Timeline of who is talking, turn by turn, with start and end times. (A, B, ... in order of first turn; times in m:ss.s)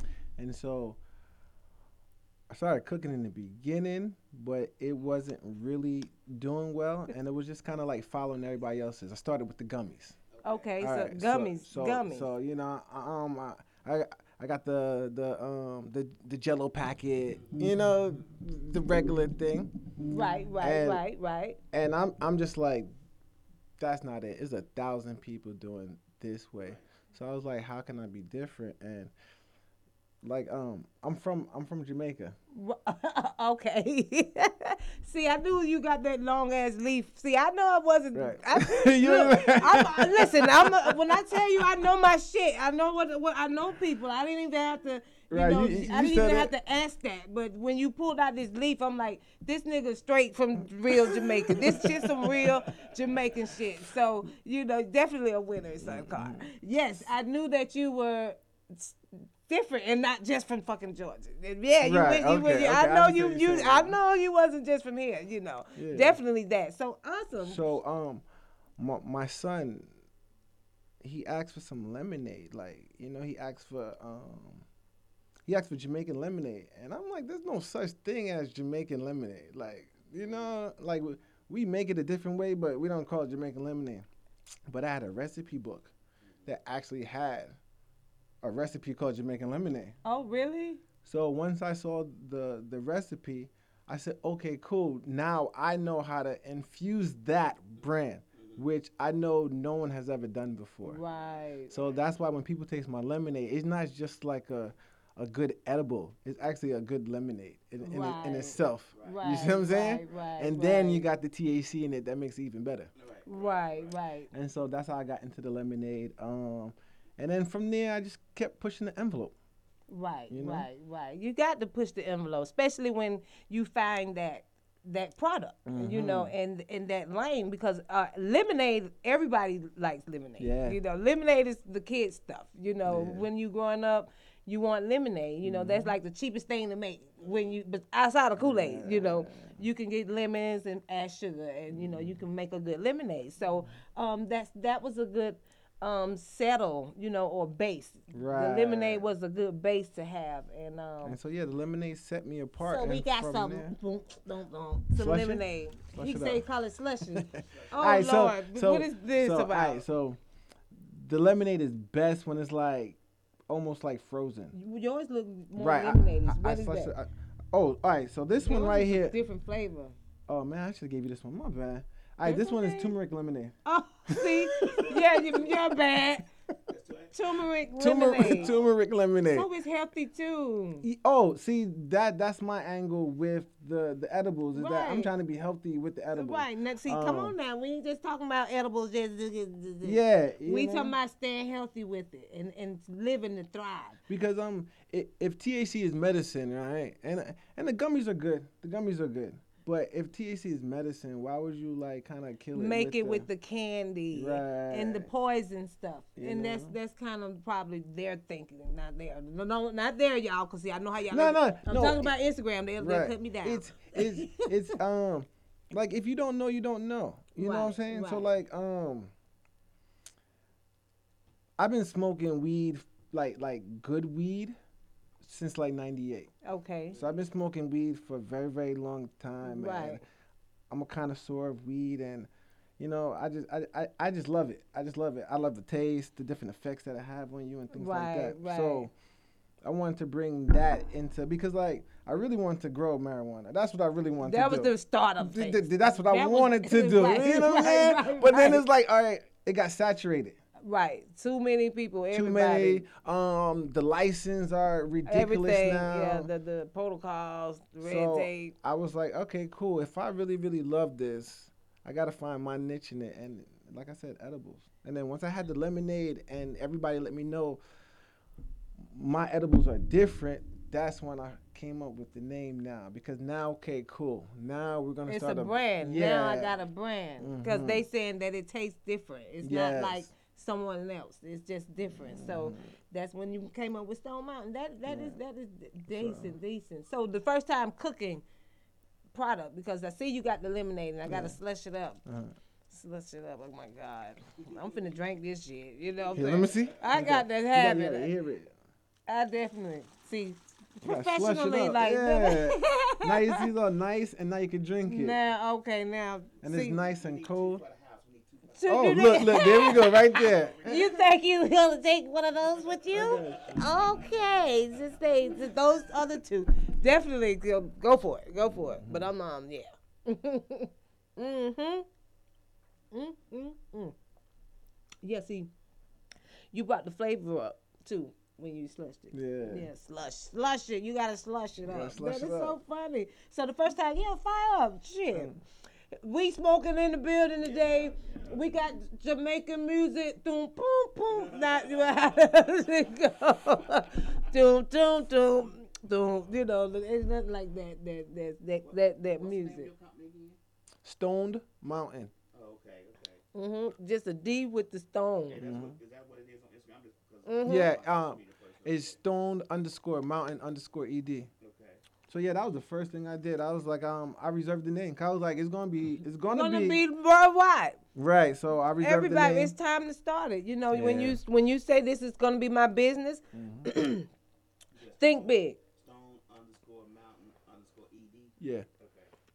0:00.4-0:01.0 A
0:02.5-0:10.2 A
0:10.3-0:10.8 B
0:10.4-0:12.3 C
0:10.8-0:19.7 A
0:20.1-0:21.6 C
0:20.6-0:21.0 A
0:21.7-0:22.9 A
0:23.8-0:29.1 A
0:30.2-0:32.4 A
0:32.5-1:07.7 C
0:38.1-0:41.2 A
0:45.3-0:46.5 A
0:50.9-0:52.5 A
0:55.8-0:57.0 A
1:01.8-1:04.0 A
1:05.8-1:06.2 A
1:07.4-1:08.2 A
1:08.8-1:09.9 A
1:11.0-1:14.7 A
1:15.5-1:24.1 A
1:24.7-1:25.9 A
1:26.5-1:27.6 A
1:28.4-1:30.0 A
1:30.0-1:30.8 C
1:31.0-1:41.0 A
1:40.8-1:41.7 C
1:41.1-1:42.1 B
1:41.7-1:52.9 A
1:47.8-1:51.0 C
1:49.0-1:49.3 B
1:53.0-1:54.0 B
1:53.3-1:54.3 C
1:54.3-1:59.4 A
1:59.9-2:31.2 C
2:00.3-2:00.7 A
2:05.7-2:06.3 A
2:10.4-2:10.8 A
2:12.8-2:13.3 A
2:15.4-2:16.0 A
2:18.4-2:19.6 A
2:21.7-2:22.2 A
2:28.1-2:29.1 A
2:31.0-2:33.8 A
2:32.6-2:39.8 C
2:35.0-2:36.5 A
2:37.0-2:40.2 A
2:37.5-2:38.0 B
2:40.7-2:43.0 A
2:43.5-2:44.5 A
2:44.5-2:46.9 C
2:45.6-2:49.2 A
2:48.4-2:50.0 C
2:50.3-2:53.6 A
2:52.2-2:52.9 C
2:53.6-2:56.3 C
2:54.1-2:55.4 A
2:56.7-2:57.2 B
2:57.1-2:58.5 C
2:57.8-2:59.5 A
2:58.2-2:58.7 B
2:59.3-3:00.9 C
3:00.8-3:07.4 A
3:04.6-3:05.1 C
3:06.1-3:14.0 C
3:09.8-3:11.0 A
3:14.1-3:23.3 A
3:22.5-3:34.8 C
3:24.1-3:25.1 A
3:26.2-3:26.7 A
3:31.1-3:32.1 A
3:32.8-3:39.1 A
3:37.4-3:38.3 C
3:41.6-3:44.6 A
3:45.2-3:46.3 A
3:46.4-3:47.0 C
3:46.9-3:50.0 A
3:49.4-3:50.0 C
3:50.7-3:58.9 A
3:57.7-3:58.9 C
3:59.6-4:10.4 A
4:04.2-4:08.6 C
4:10.6-4:12.9 C
4:12.1-4:16.3 A
4:15.1-4:18.5 C
4:17.8-4:27.6 A
4:28.8-4:36.6 A
4:35.1-4:48.2 C
4:37.2-4:37.8 A
4:39.4-4:40.1 A
4:42.1-4:42.7 A
4:44.9-4:45.2 A
4:45.9-4:46.4 A
4:49.1-4:52.0 C
4:51.1-4:51.4 A
4:52.1-4:52.3 A
4:52.7-4:58.1 C
4:56.0-4:57.0 B
4:56.1-4:58.5 A
4:59.1-5:03.5 C
5:00.8-5:05.2 A
5:04.9-5:06.8 C
5:06.4-5:07.6 A
5:06.5-5:11.1 B
5:08.6-5:21.9 C
5:08.7-5:10.8 A
5:12.5-5:15.4 B
5:12.9-5:13.5 A
5:18.8-5:19.1 A
5:22.9-5:24.0 C
5:25.0-5:25.5 C
5:26.5-5:35.4 C
5:29.1-5:29.7 A
5:31.6-5:32.6 A
5:36.0-5:49.7 C
5:37.4-5:38.4 B
5:41.1-5:42.3 B
5:48.6-5:50.4 B
5:50.8-5:52.1 A
5:52.3-5:53.2 B
5:53.4-5:55.4 C
5:55.3-5:59.0 B
5:55.4-5:55.8 A
5:57.3-5:57.7 C
5:57.4-6:01.3 A
6:01.4-6:01.8 B
6:02.1-6:06.8 A
6:06.3-6:07.8 C
6:08.0-6:09.6 A
6:08.8-6:14.1 C
6:10.7-6:11.2 A
6:13.3-6:13.7 A
6:14.8-6:19.1 B
6:15.0-6:15.6 C
6:18.4-6:18.7 A